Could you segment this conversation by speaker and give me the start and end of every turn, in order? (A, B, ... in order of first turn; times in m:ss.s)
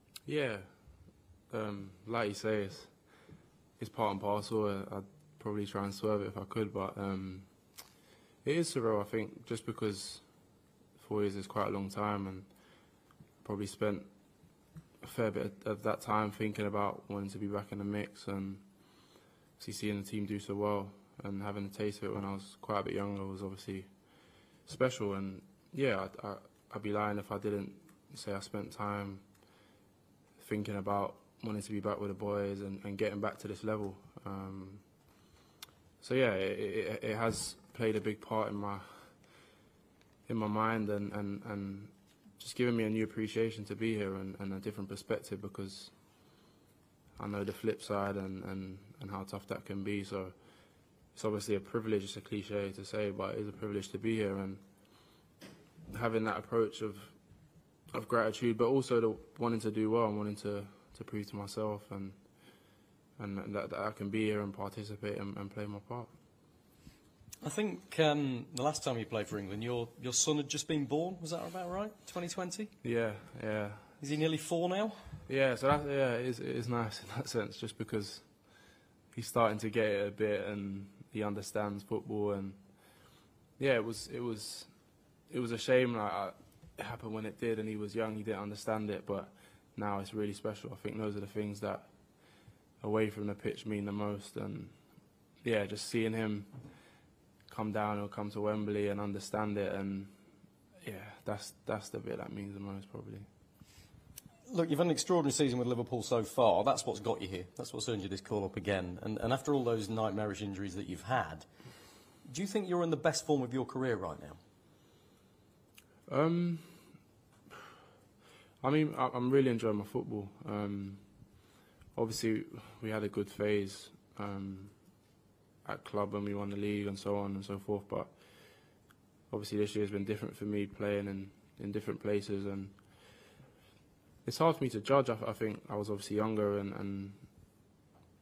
0:00.2-0:03.1 A
0:03.8-0:07.9 A
0:08.4-0:12.7 A
0:13.4-0:14.1 A
0:15.0-0:29.5 A
0:30.4-0:35.0 A
0:36.0-0:39.3 A
0:40.2-0:46.3 A
0:47.2-0:55.2 A
0:55.9-1:06.1 A
1:07.4-1:12.8 B
1:12.8-1:13.9 A
1:14.0-1:15.2 B
1:15.3-1:43.3 A
1:44.4-1:54.4 B
1:56.1-1:57.0 A
1:58.6-2:13.2 A
2:14.2-2:17.5 A